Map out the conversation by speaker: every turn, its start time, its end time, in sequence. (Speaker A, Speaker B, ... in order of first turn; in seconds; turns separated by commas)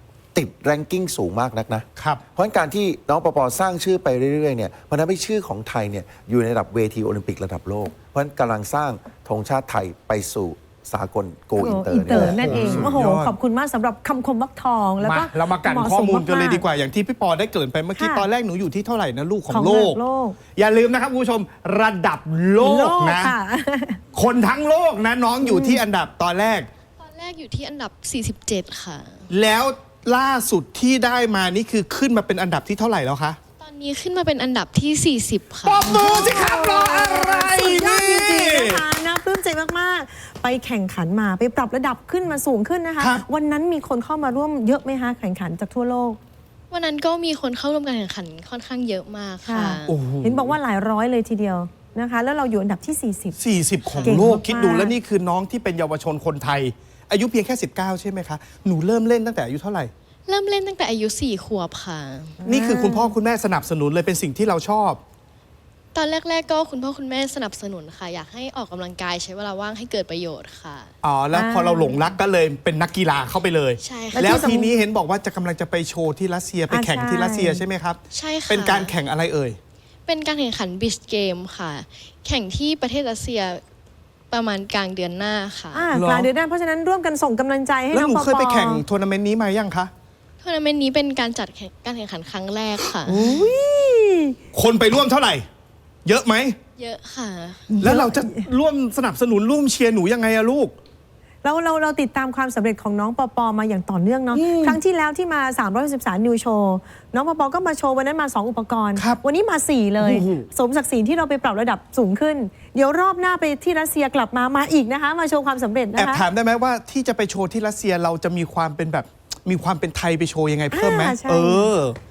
Speaker A: 0.3-12.9, Speaker B: 11.6-16.6, Speaker C: 12.1-13.3, Speaker C: 15.0-20.0, Speaker B: 18.0-18.2, Speaker B: 19.5-20.4, Speaker C: 20.6-23.3, Speaker B: 22.6-24.0, Speaker C: 24.1-26.7, Speaker B: 25.4-25.8, Speaker D: 27.0-29.3, Speaker C: 29.3-33.4, Speaker D: 33.6-36.1, Speaker C: 35.6-38.8, Speaker B: 35.8-46.2, Speaker C: 43.0-43.2, Speaker D: 46.7-50.0, Speaker B: 49.5-53.4, Speaker C: 49.9-50.5, Speaker C: 53.4-59.9, Speaker D: 53.8-54.2, Speaker B: 54.0-54.9, Speaker D: 60.3-62.4, Speaker B: 62.4-63.1, Speaker C: 62.4-65.0, Speaker D: 65.9-70.9, Speaker C: 71.0-79.6, Speaker B: 71.3-72.0, Speaker D: 73.8-74.5, Speaker B: 74.1-74.8, Speaker B: 76.7-77.6, Speaker D: 78.1-78.9, Speaker D: 80.1-83.6, Speaker D: 84.3-85.9, Speaker B: 85.7-88.8, Speaker C: 85.9-86.3, Speaker C: 87.9-89.9, Speaker D: 90.4-93.2, Speaker C: 93.0-93.6, Speaker B: 93.1-94.4, Speaker C: 94.5-95.4, Speaker C: 96.0-96.6, Speaker D: 96.8-97.8, Speaker B: 97.8-98.4, Speaker C: 97.8-100.7, Speaker B: 101.4-116.2, Speaker C: 104.3-104.8, Speaker C: 109.0-109.2, Speaker C: 110.0-110.5, Speaker C: 116.0-122.0, Speaker B: 120.7-121.7